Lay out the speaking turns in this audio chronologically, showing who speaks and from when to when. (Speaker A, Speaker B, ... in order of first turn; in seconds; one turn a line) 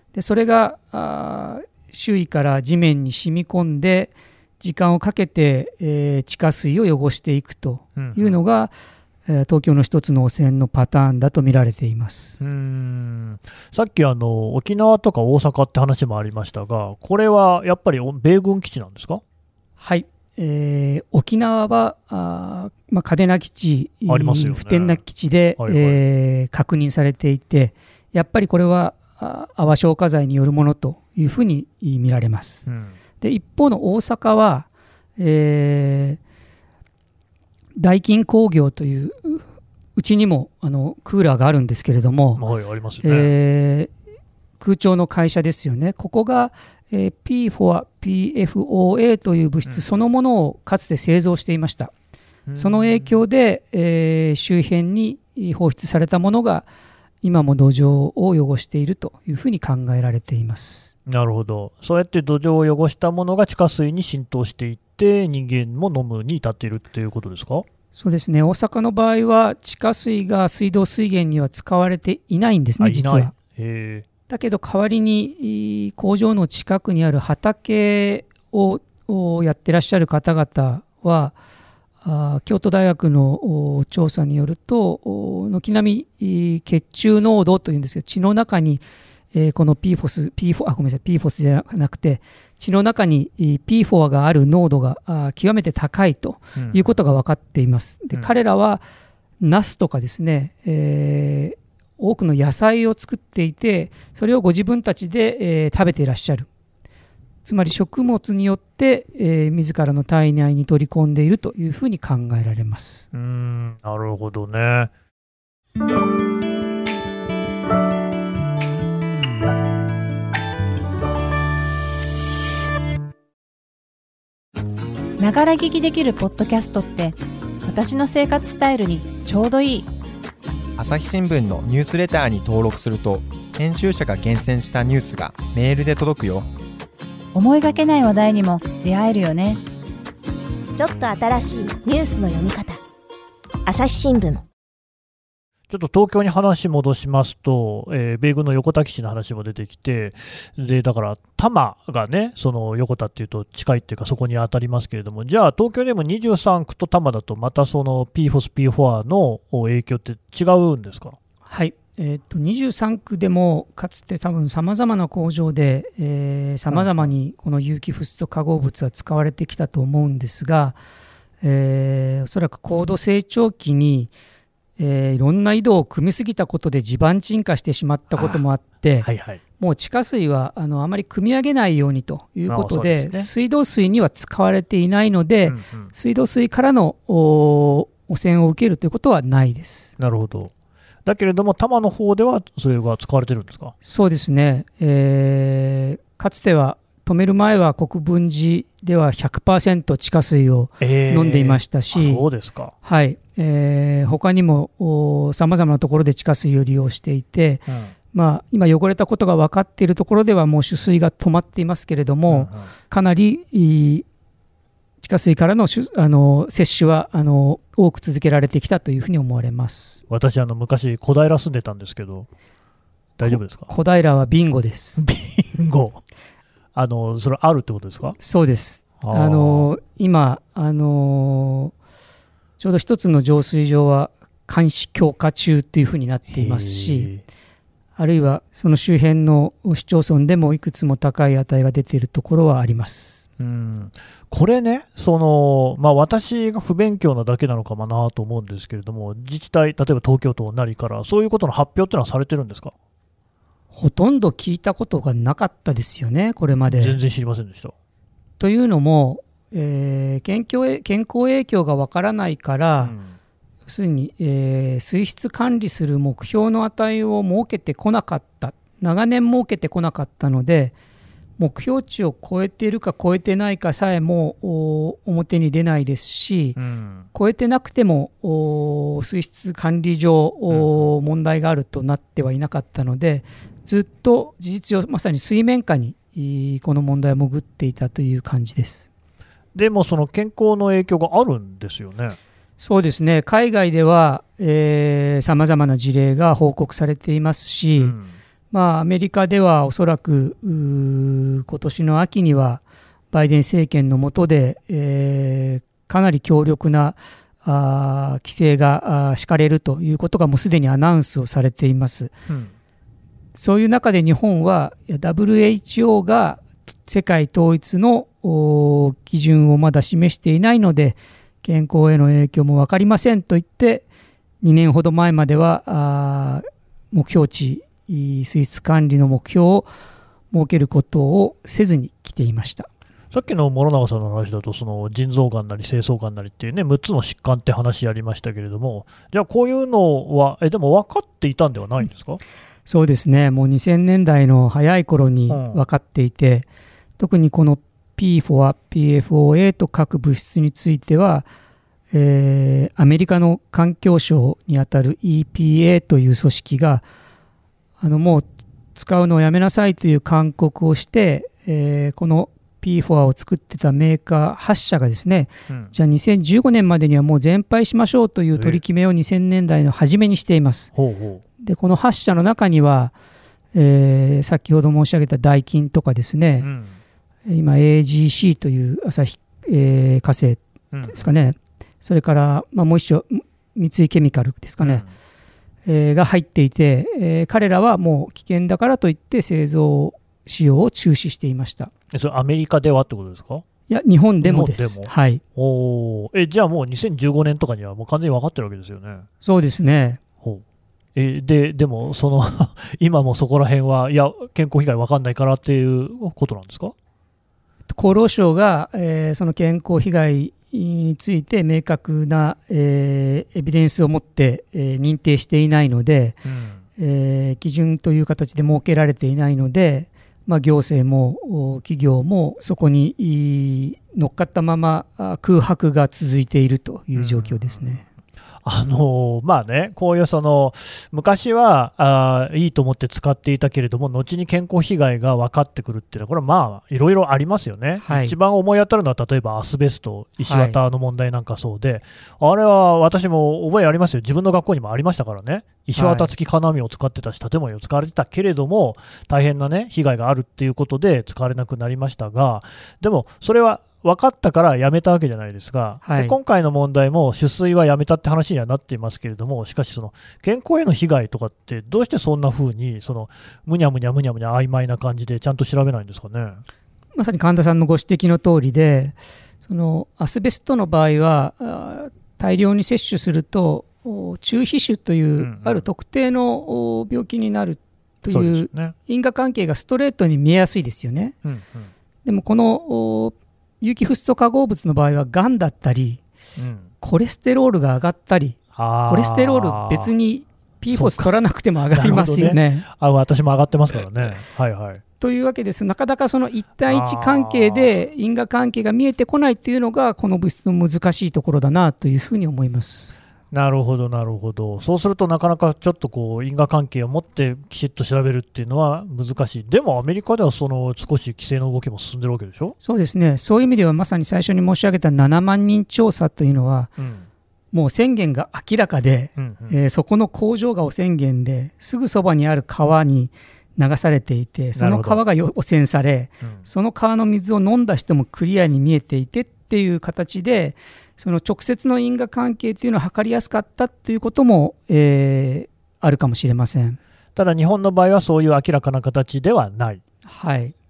Speaker A: 0.1-8.7
Speaker B: 8.0-8.4
Speaker A: 9.3-12.4
Speaker B: 12.4-19.2
Speaker A: 19.8-32.6
Speaker B: 24.1-25.0
Speaker B: 25.6-26.0
Speaker B: 32.7-33.0
Speaker A: 33.2-34.7
Speaker A: 35.2-36.2
Speaker A: 37.8-39.4
Speaker A: 40.0-42.4
Speaker B: 42.4-43.3
Speaker A: 43.0-43.9
Speaker A: 44.6-51.9
Speaker B: 49.7-49.9
Speaker B: 52.5-53.2
Speaker A: 52.6-56.7
Speaker A: 57.2-60.9
Speaker B: 61.1-67.7
Speaker A: 67.9-73.3
Speaker B: 72.8-74.1
Speaker A: 74.3-81.3
Speaker A: 82.0-98.8
Speaker B: 96.6-97.0
Speaker A: 99.4-106.5
Speaker A: 107.4-113.1
Speaker B: 113.1-114.9
Speaker C: 125.2-129.9
Speaker D: 130.8-136.5
Speaker C: 137.3-139.6
Speaker E: 140.8-142.8
Speaker E: 143.7-144.4
Speaker B: 145.7-161.2
Speaker A: 161.5-170.8
Speaker B: 166.7-167.0
Speaker A: 171.4-174.1
Speaker A: 174.8-179.1
Speaker B: 178.2-178.4
Speaker B: 179.0-179.4
Speaker A: 179.6-189.9
Speaker B: 182.5-183.3
Speaker B: 185.4-185.9
Speaker B: 190.0-190.5
Speaker B: 191.1-193.8
Speaker A: 193.8-202.3
Speaker B: 200.8-202.7
Speaker A: 202.8-214.1
Speaker B: 212.3-212.7
Speaker A: 215.0-220.0
Speaker B: 220.1-222.3
Speaker B: 223.2-223.7
Speaker A: 223.2-225.0
Speaker B: 225.0-226.0
Speaker B: 226.7-228.2
Speaker A: 228.2-231.7
Speaker B: 229.0-229.7
Speaker A: 232.6-237.1
Speaker B: 236.3-237.2
Speaker A: 238.0-243.2
Speaker B: 243.4-252.7
Speaker A: 253.7-257.0
Speaker B: 256.7-257.7
Speaker A: 258.4-262.9
Speaker B: 262.8-263.2
Speaker A: 263.7-270.8
Speaker A: 271.4-276.6
Speaker B: 276.6-277.1
Speaker A: 277.1-288.9
Speaker B: 280.5-280.9
Speaker B: 289.5-292.2
Speaker A: 292.6-298.0
Speaker B: 297.8-298.2
Speaker A: 298.5-312.1
Speaker B: 312.3-312.5
Speaker A: 313.4-323.9
Speaker A: 324.4-329.7
Speaker A: 330.3-332.7
Speaker B: 333.1-342.2
Speaker A: 342.7-346.5
Speaker B: 345.3-345.6
Speaker A: 347.0-351.3
Speaker A: 351.9-356.8
Speaker A: 357.8-370.7
Speaker B: 365.5-365.7
Speaker B: 368.4-368.6
Speaker B: 370.8-371.2
Speaker A: 371.4-372.9
Speaker A: 373.5-376.5
Speaker B: 376.4-376.8
Speaker A: 377.3-384.8
Speaker B: 380.7-381.1
Speaker B: 384.6-384.9
Speaker A: 385.7-391.7
Speaker B: 391.9-393.4
Speaker A: 393.7-395.2
Speaker B: 394.2-399.1
Speaker A: 399.2-400.0
Speaker B: 400.9-406.7
Speaker A: 407.7-416.2
Speaker B: 416.2-416.6
Speaker A: 416.8-427.8
Speaker B: 426.9-427.8
Speaker B: 428.4-466.4
Speaker A: 437.8-438.1
Speaker A: 440.2-440.6
Speaker A: 445.8-446.1
Speaker A: 455.8-456.2
Speaker A: 467.0-481.1
Speaker B: 475.2-475.7
Speaker B: 478.1-478.7
Speaker B: 481.2-481.7
Speaker A: 482.1-486.0
Speaker B: 486.4-486.7
Speaker A: 486.8-492.7
Speaker B: 488.6-489.9
Speaker B: 490.7-491.1
Speaker B: 491.7-494.8
Speaker A: 495.0-503.0
Speaker B: 496.7-497.7
Speaker B: 503.3-512.6
Speaker A: 512.6-516.7
Speaker B: 516.8-517.1
Speaker A: 517.5-536.8
Speaker B: 519.2-519.6
Speaker B: 524.6-525.0
Speaker B: 526.2-526.5
Speaker B: 537.1-539.8
Speaker A: 540.1-540.5